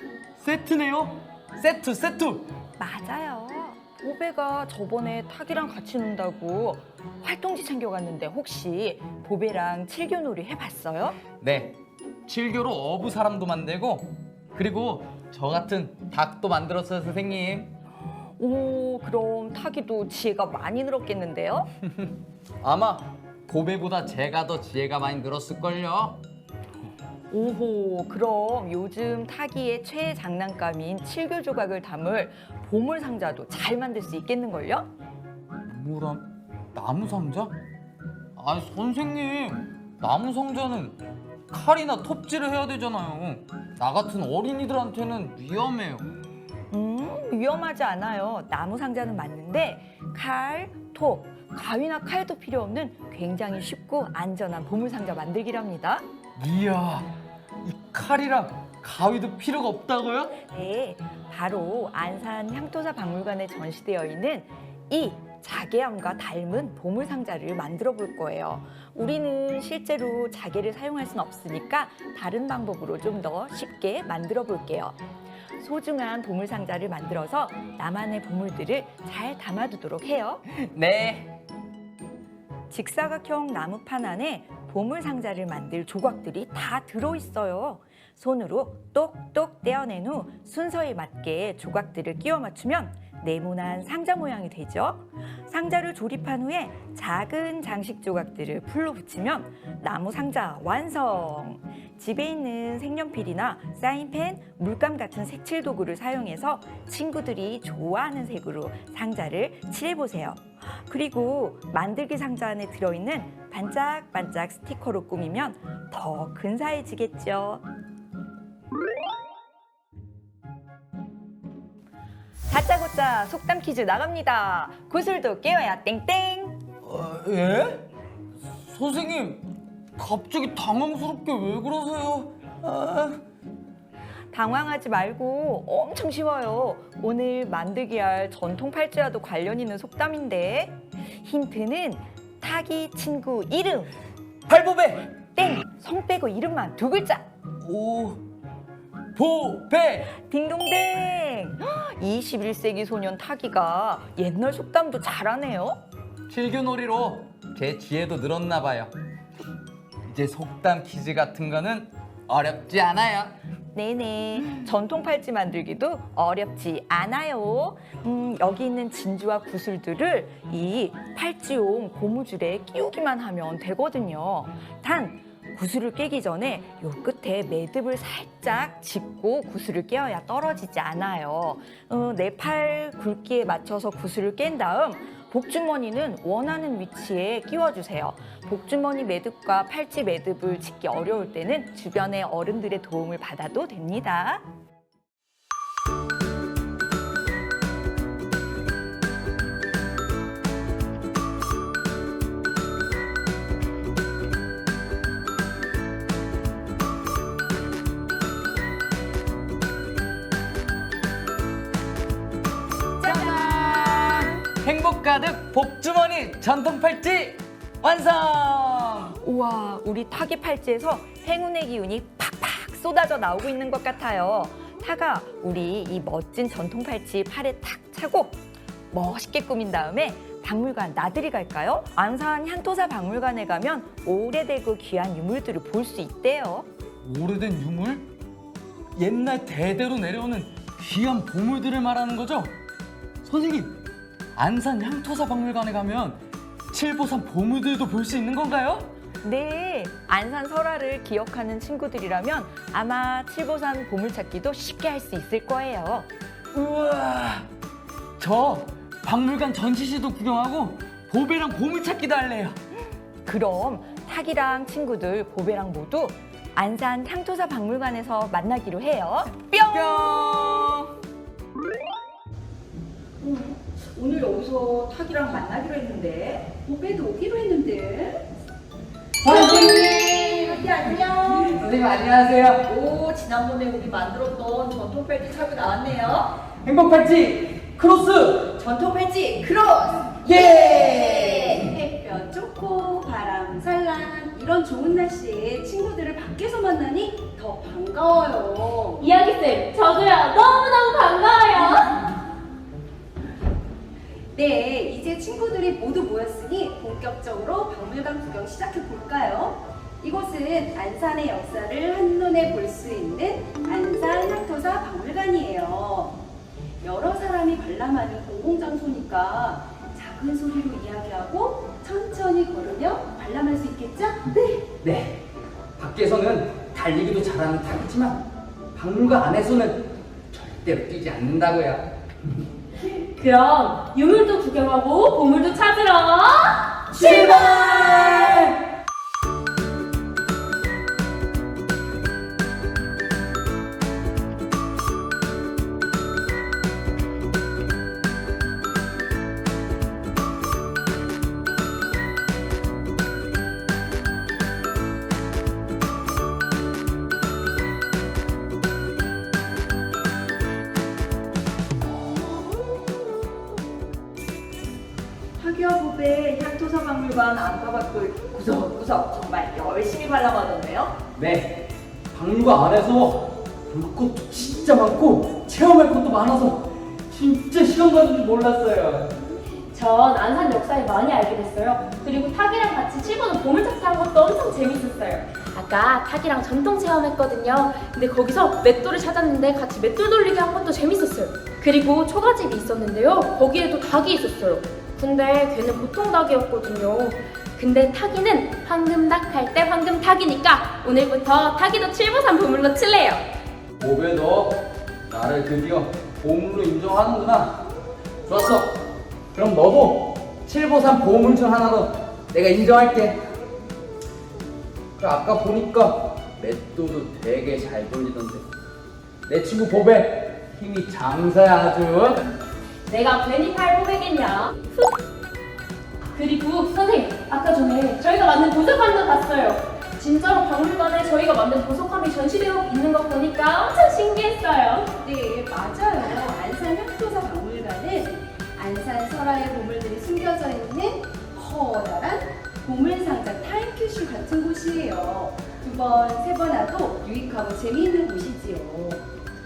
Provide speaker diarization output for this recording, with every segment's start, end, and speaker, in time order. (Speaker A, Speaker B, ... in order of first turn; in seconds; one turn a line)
Speaker A: 0.4-2.5
Speaker B: 2.8-11.2
Speaker A: 11.4-11.7
Speaker A: 12.3-17.7
Speaker B: 18.2-21.7
Speaker A: 22.6-26.2
Speaker B: 27.3-34.9
Speaker A: 35.7-37.5
Speaker A: 38.4-41.0
Speaker A: 41.5-46.1
Speaker B: 46.7-56.0
Speaker A: 56.4-57.1
Speaker A: 57.6-60.4
Speaker B: 60.4-75.0
Speaker B: 75.6-80.4
Speaker A: 80.5-81.3
Speaker B: 82.7-117.6
Speaker B: 122.5-126.6
Speaker A: 126.8-127.9
Speaker A: 128.5-129.4
Speaker A: 130.0-133.2
Speaker B: 134.3-143.9
Speaker A: 144.5-145.1
Speaker B: 145.3-147.3
Speaker A: 147.6-148.2
Speaker A: 149.2-150.1
Speaker B: 150.1-155.8
Speaker A: 156.3-158.9
Speaker A: 160.1-163.3
Speaker B: 163.7-194.4
Speaker A: 213.0-219.1
Speaker B: 213.1-213.4
Speaker B: 219.2-228.4
Speaker B: 228.9-236.7
Speaker A: 237.0-238.1
Speaker A: 238.9-242.5
Speaker A: 243.2-243.8
Speaker A: 244.3-248.9
Speaker B: 249.2-256.1
Speaker A: 256.5-257.5
Speaker A: 258.2-262.6
Speaker B: 263.2-270.9
Speaker A: 269.6-270.6
Speaker B: 273.2-277.8
Speaker C: 276.7-278.2
Speaker A: 279.2-282.7
Speaker B: 279.3-281.5
Speaker B: 282.6-286.4
Speaker A: 286.6-288.5
Speaker B: 288.5-291.7
Speaker A: 290.3-291.5
Speaker C: 291.2-299.0
Speaker D: 299.0-302.0
Speaker C: 304.3-316.2
Speaker C: 316.8-324.6
Speaker A: 324.8-325.2
Speaker A: 325.8-331.9
Speaker D: 332.9-338.5
Speaker A: 336.9-338.5
Speaker B: 365.4-371.0
Speaker A: 371.1-379.1
Speaker D: 379.7-403.2
Speaker A: 403.8-404.6
Speaker A: 405.1-407.6
Speaker A: 408.2-408.8
Speaker A: 409.3-413.2
Speaker A: 415.0-418.4
Speaker A: 419.3-422.3
Speaker D: 422.9-425.0
Speaker D: 426.1-434.9
Speaker C: 435.0-449.0